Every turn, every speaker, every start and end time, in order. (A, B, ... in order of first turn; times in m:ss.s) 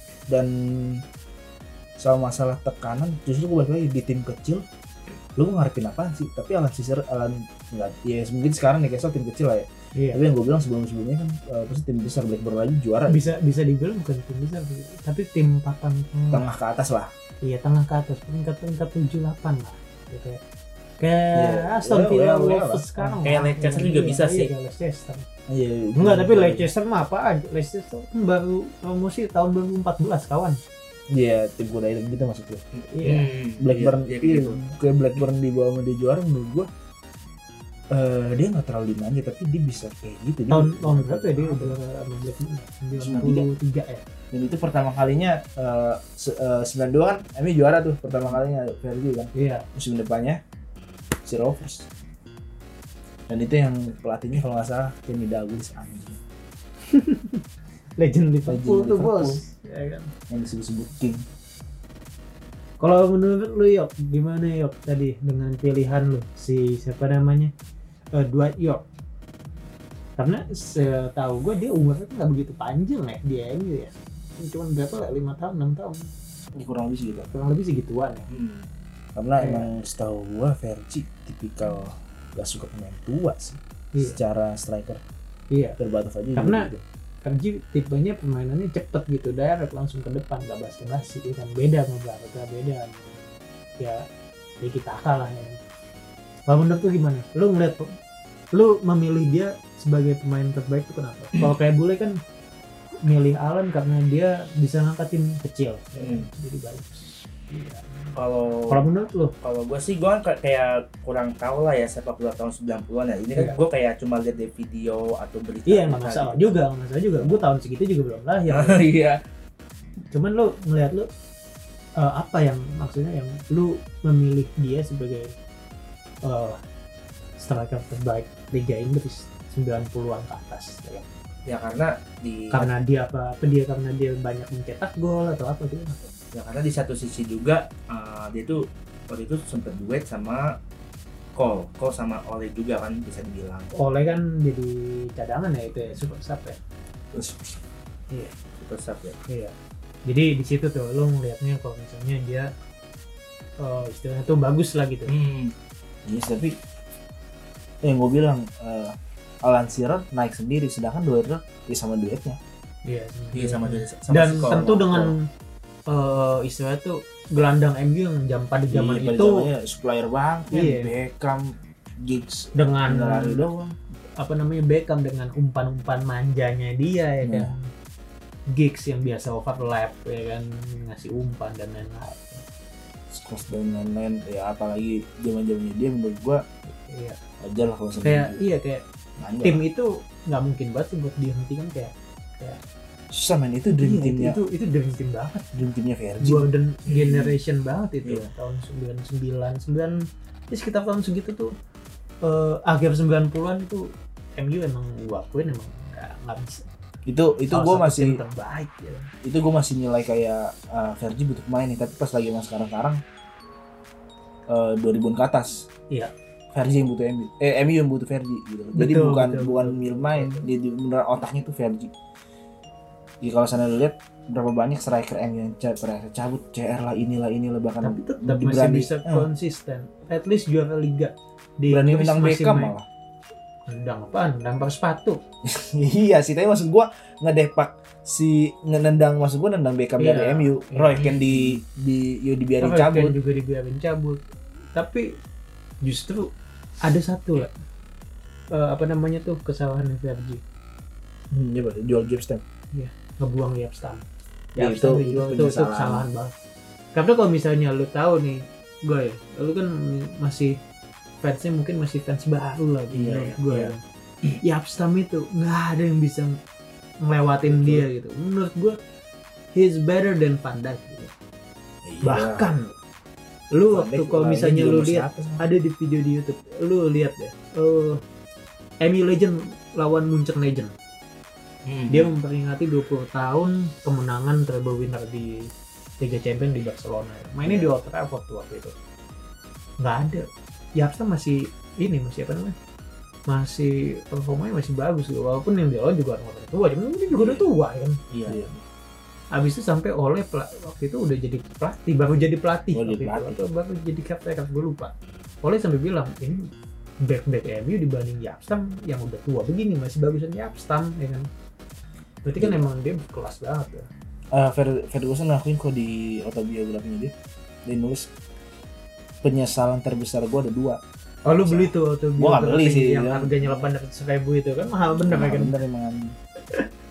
0:00.3-0:01.0 A
0:02.0-0:04.6 A
0:05.4-0:13.3 A
0:10.0-0:10.2 B
0:13.1-0:16.4 B
0:16.3-0:17.1 A
0:17.4-0:20.4 B
0:21.0-0:25.2 B
0:21.3-0:23.2 A
0:23.2-0:24.5 C
0:25.5-0:26.7 A
0:26.0-0:30.6 B
0:31.1-0:32.6 A
0:32.7-0:34.6 C
0:32.9-0:33.3 B
0:33.6-0:36.7 A
0:37.9-0:41.7 A
0:40.5-0:44.0 B
0:43.0-0:43.5 A
0:44.3-0:50.4 A
0:49.3-0:49.6 B
0:51.2-0:51.9 A
0:53.3-0:56.2 A
0:56.9-0:57.4 B
0:58.0-1:00.1 B
0:58.5-0:59.4 A
1:00.3-1:01.2 A
1:02.8-1:07.5 B
1:08.1-1:08.8 B
1:10.2-1:16.1 B
1:16.5-1:17.3 A
1:17.3-1:18.3 B
1:18.3-1:18.6 C
1:19.2-1:25.0 A
1:19.4-1:19.7 B
1:25.5-1:25.8 B
1:25.8-1:26.8 A
1:26.3-1:26.7 B
1:27.2-1:33.2 B
1:33.8-1:34.0 B
1:34.6-1:35.6 B
1:36.5-1:38.0 B
1:38.5-1:42.2 B
1:43.0-1:48.1 B
1:46.0-1:46.3 C
1:48.1-1:48.8 C
1:48.7-1:49.3 B
1:49.4-1:56.5 C
1:55.7-1:58.8 B
1:58.5-1:59.2 C
2:00.1-2:01.1 B
2:02.0-2:05.3 B
2:06.2-2:06.6 B
2:07.4-2:11.0 B
2:11.4-2:12.7 C
2:12.5-2:16.1 B
2:16.3-2:20.5 C
2:21.4-2:23.7 C
2:23.7-2:26.6 B
2:27.1-2:27.5 C
2:28.6-2:29.2 C
2:29.3-2:29.5 B
2:30.0-2:32.5 B
2:33.6-2:35.1 B
2:35.1-2:35.5 C
2:36.0-2:36.6 A
2:37.8-2:42.4 A
2:42.8-2:45.2 B
2:43.3-2:45.0 C
2:45.9-2:49.5 B
2:48.7-2:53.7 A
2:50.5-2:50.9 B
2:52.5-2:53.5 B
2:54.2-2:57.6 B
2:57.2-2:57.5 A
2:58.5-3:02.4 B
3:03.1-3:06.4 A
3:06.7-3:07.2 B
3:07.4-3:08.4 A
3:08.0-3:08.8 B
3:09.2-3:09.6 A
3:09.4-3:12.6 B
3:13.1-3:14.4 A
3:13.7-3:15.5 B
3:15.5-3:16.4 A
3:16.2-3:21.5 B
3:16.9-3:17.3 C
3:22.2-3:26.7 B
3:27.0-3:28.2 A
3:27.5-3:29.1 B
3:29.2-3:33.0 A
3:34.5-3:35.7 A
3:36.5-3:41.9 A
3:38.8-3:40.5 B
3:43.2-3:49.2 A
3:47.8-3:52.7 B
3:51.7-3:52.8 A
3:53.7-3:55.2 B
3:55.4-4:03.2 A
4:00.0-4:01.5 B
4:00.9-4:01.2 C
4:02.6-4:04.2 B
4:04.7-4:05.2 B
4:05.8-4:06.3 B
4:06.8-4:07.5 B
4:08.5-4:10.4 B
4:11.3-4:12.4 A
4:12.7-4:14.0 B
4:14.6-4:16.0 A
4:14.6-4:16.3 B
4:16.9-4:20.6 B
4:21.2-4:23.8 B
4:22.9-4:23.7 A
4:24.4-4:26.4 B
4:27.0-4:28.8 B
4:27.4-4:27.9 A
4:29.5-4:31.1 B
4:31.8-4:32.5 A
4:32.0-4:32.8 B
4:33.5-4:38.0 B
4:33.7-4:35.4 A
4:38.8-4:40.7 B
4:41.6-4:42.1 C
4:41.9-4:45.5 B
4:46.0-4:48.7 B
4:49.8-4:52.5 B
4:53.3-4:58.0 B
4:58.1-4:58.6 C
4:58.2-4:58.5 A
4:59.3-5:06.5 B
5:02.7-5:03.4 A
5:07.0-5:11.3 B
5:12.2-5:13.9 B
5:14.3-5:17.1 A
5:17.6-5:18.1 A
5:19.2-5:23.6 A
5:21.2-5:25.6 B
5:24.8-5:26.1 A